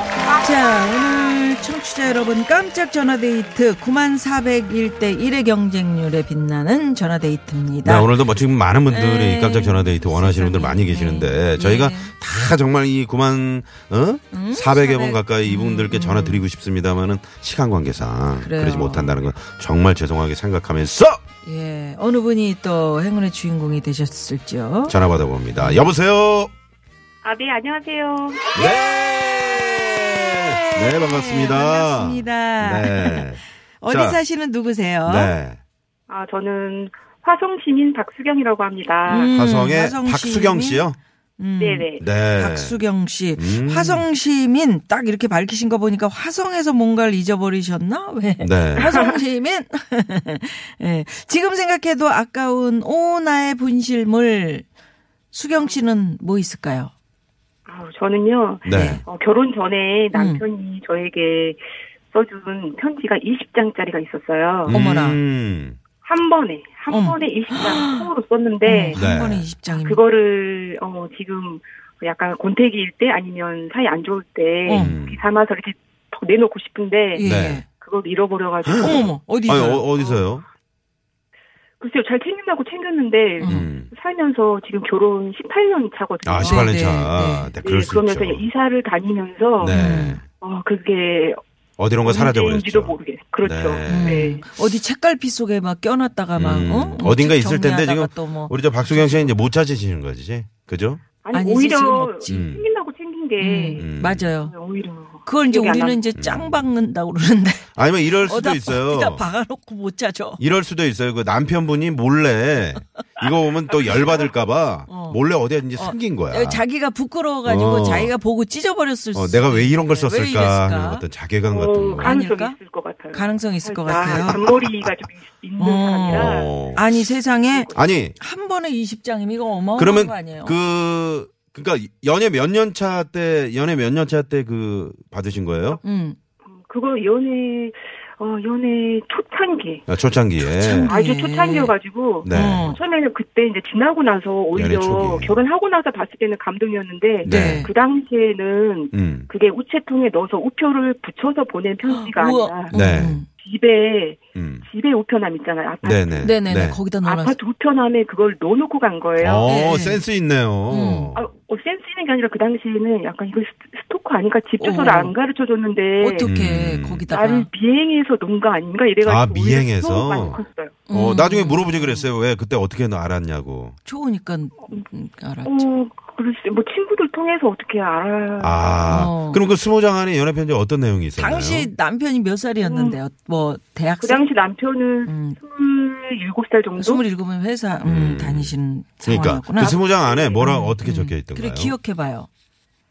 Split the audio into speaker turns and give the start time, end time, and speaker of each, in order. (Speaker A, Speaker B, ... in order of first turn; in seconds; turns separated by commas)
Speaker A: 0.3-8.1, Speaker B: 7.8-21.2, Speaker A: 8.9-12.1, Speaker A: 14.3-16.5, Speaker A: 18.4-19.2, Speaker A: 21.4-25.0, Speaker B: 24.9-26.5, Speaker A: 25.5-25.9, Speaker C: 27.2-28.6, Speaker B: 28.5-34.2, Speaker A: 29.4-35.3, Speaker B: 35.1-35.6, Speaker C: 36.1-39.4, Speaker A: 39.1-40.9, Speaker B: 39.3-41.0, Speaker A: 41.4-54.7, Speaker C: 41.6-42.0, Speaker B: 42.0-42.8, Speaker B: 43.4-44.1, Speaker B: 48.4-49.0, Speaker C: 48.9-49.1, Speaker A: 55.3-56.9, Speaker C: 57.7-64.8, Speaker B: 58.6-59.0, Speaker A: 58.7-59.0, Speaker A: 60.1-60.4, Speaker B: 64.7-65.8, Speaker A: 64.7-65.2, Speaker C: 66.0-69.0, Speaker A: 66.9-68.1, Speaker A: 68.7-70.0, Speaker B: 68.9-69.5, Speaker C: 69.7-77.2, Speaker A: 74.7-75.0, Speaker B: 74.7-75.2, Speaker A: 77.1-77.7, Speaker B: 77.2-77.6, Speaker C: 77.8-79.1, Speaker B: 78.7-80.5, Speaker A: 78.8-79.9, Speaker C: 81.8-86.9, Speaker A: 83.4-83.7, Speaker B: 83.5-83.9, Speaker B: 86.2-88.4, Speaker A: 86.4-87.5, Speaker C: 87.6-89.8, Speaker B: 89.6-90.2, Speaker A: 89.7-90.2, Speaker C: 90.4-91.4, Speaker B: 91.8-94.3, Speaker C: 92.0-94.5, Speaker A: 93.9-99.4, Speaker B: 96.3-101.0, Speaker C: 101.2-103.9, Speaker A: 101.3-102.5, Speaker B: 102.3-102.7, Speaker A: 103.4-104.5, Speaker B: 103.8-104.3, Speaker C: 104.4-106.1, Speaker A: 105.2-110.4, Speaker B: 106.2-106.7, Speaker B: 107.8-109.3, Speaker B: 110.4-116.6, Speaker C: 113.9-114.2, Speaker A: 114.9-115.2, Speaker A: 115.7-121.1, Speaker B: 117.5-118.1, Speaker B: 119.2-122.1, Speaker C: 121.5-126.6, Speaker A: 121.8-122.6, Speaker A: 123.1-124.5, Speaker B: 124.1-124.9, Speaker A: 125.6-130.6, Speaker B: 126.1-126.9, Speaker C: 127.4-127.8, Speaker B: 127.7-128.2, Speaker B: 129.8-135.8, Speaker A: 135.8-136.2, Speaker C: 136.4-139.9, Speaker B: 139.9-140.9, Speaker A: 140.6-141.7, Speaker C: 140.9-152.7, Speaker B: 142.2-142.7, Speaker A: 142.3-142.8, Speaker B: 144.5-145.4, Speaker A: 147.2-147.7, Speaker B: 147.2-147.7, Speaker B: 148.9-149.3, Speaker A: 151.9-153.3, Speaker B: 152.7-153.2, Speaker C: 153.4-156.3, Speaker B: 154.3-154.7, Speaker B: 155.8-156.8, Speaker A: 156.2-157.4, Speaker C: 157.0-159.5, Speaker B: 159.2-161.3, Speaker A: 159.4-160.0, Speaker A: 160.7-161.1, Speaker C: 161.1-166.3, Speaker A: 164.6-165.1, Speaker A: 166.0-167.5, Speaker B: 166.2-167.1, Speaker C: 167.1-170.8, Speaker B: 169.0-173.8, Speaker A: 170.9-172.1, Speaker A: 173.8-175.7, Speaker C: 175.4-178.9, Speaker B: 178.4-181.7, Speaker A: 178.9-179.5, Speaker A: 181.2-184.2, Speaker C: 182.6-183.0, Speaker C: 184.0-187.0, Speaker A: 185.1-185.4, Speaker A: 186.8-189.8, Speaker B: 187.8-188.5, Speaker B: 189.1-191.8, Speaker C: 189.6-190.4, Speaker A: 190.4-192.3